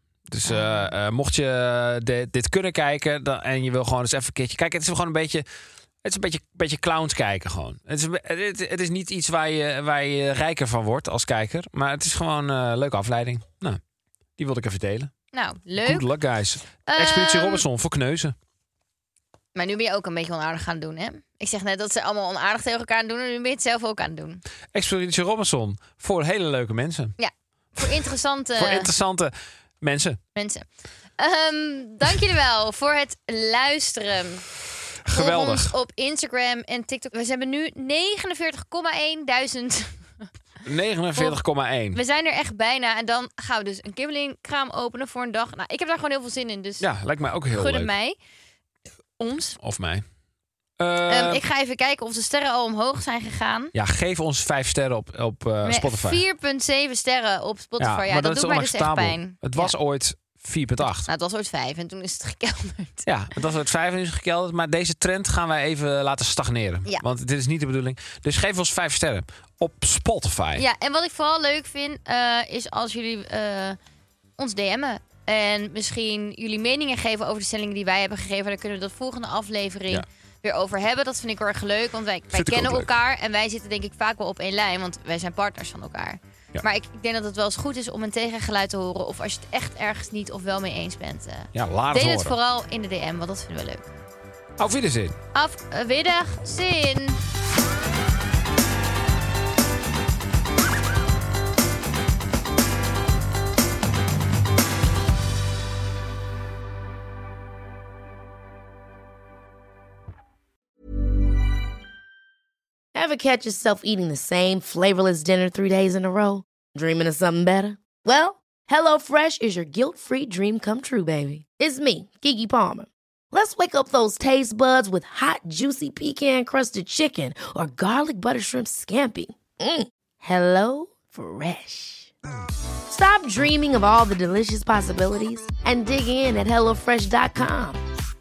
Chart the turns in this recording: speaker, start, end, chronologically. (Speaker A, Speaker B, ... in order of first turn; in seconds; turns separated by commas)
Speaker A: 0.3-5.5, Speaker B: 0.4-0.9, Speaker A: 6.0-13.8, Speaker A: 14.4-15.1, Speaker B: 15.3-16.1, Speaker A: 15.8-18.3, Speaker B: 16.9-17.6, Speaker B: 19.5-24.4, Speaker A: 24.7-27.1, Speaker B: 27.2-28.9, Speaker A: 28.6-30.2, Speaker B: 30.3-30.6, Speaker B: 31.2-34.5, Speaker A: 35.0-35.7, Speaker B: 35.0-40.2, Speaker A: 40.6-42.0, Speaker B: 41.9-46.9, Speaker A: 46.8-47.9, Speaker B: 47.5-48.2, Speaker B: 49.2-49.6, Speaker A: 49.6-50.0, Speaker A: 50.8-51.4, Speaker B: 51.1-53.7, Speaker A: 53.7-56.2, Speaker B: 55.6-59.7, Speaker A: 57.8-61.1, Speaker B: 61.0-63.1, Speaker A: 63.0-70.6, Speaker B: 70.5-73.8, Speaker B: 74.4-93.9, Speaker A: 82.3-82.9, Speaker A: 91.5-92.3, Speaker A: 94.6-95.2, Speaker B: 95.3-97.2, Speaker C: 112.9-132.1, Speaker C: 132.9-137.8